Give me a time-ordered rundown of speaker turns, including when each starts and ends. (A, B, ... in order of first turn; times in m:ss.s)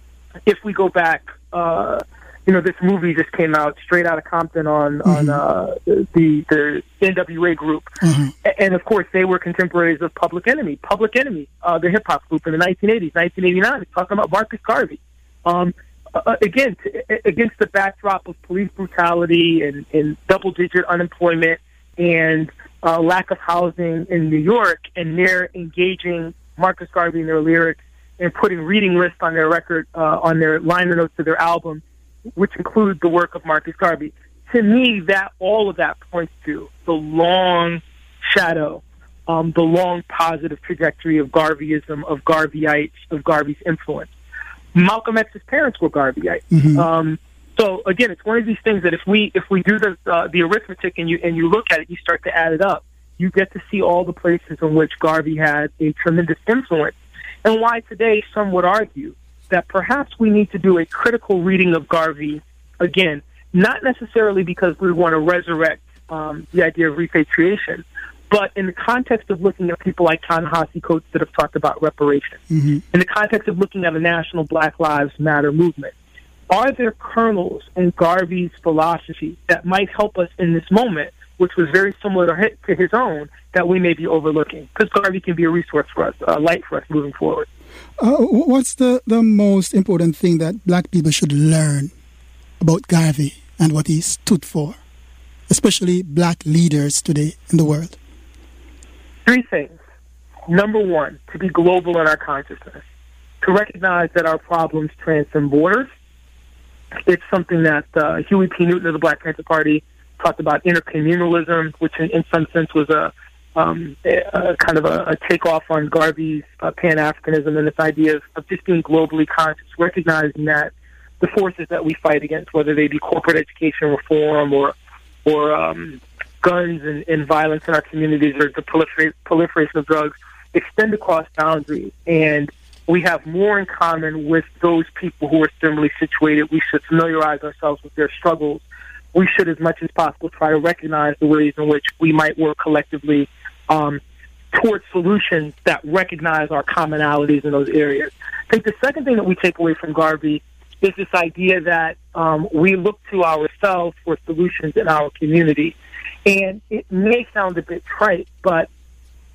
0:00.5-0:07.9 A
0:05.1-0:05.4 B
0:08.0-0:08.3 B
0:08.4-0:31.8 A
0:32.4-0:44.1 A
0:44.7-1:12.4 A
0:46.5-0:46.8 B
1:12.5-1:12.8 B
1:12.9-1:15.9 A
1:16.5-1:27.5 A
1:28.0-1:31.9 B
1:32.6-1:34.8 B
1:35.5-1:38.0 B
1:39.3-1:39.8 A
1:40.5-1:42.8 A
1:43.4-1:45.9 A
1:47.1-2:24.0 A
2:24.5-2:35.8 A
2:36.3-2:38.7 A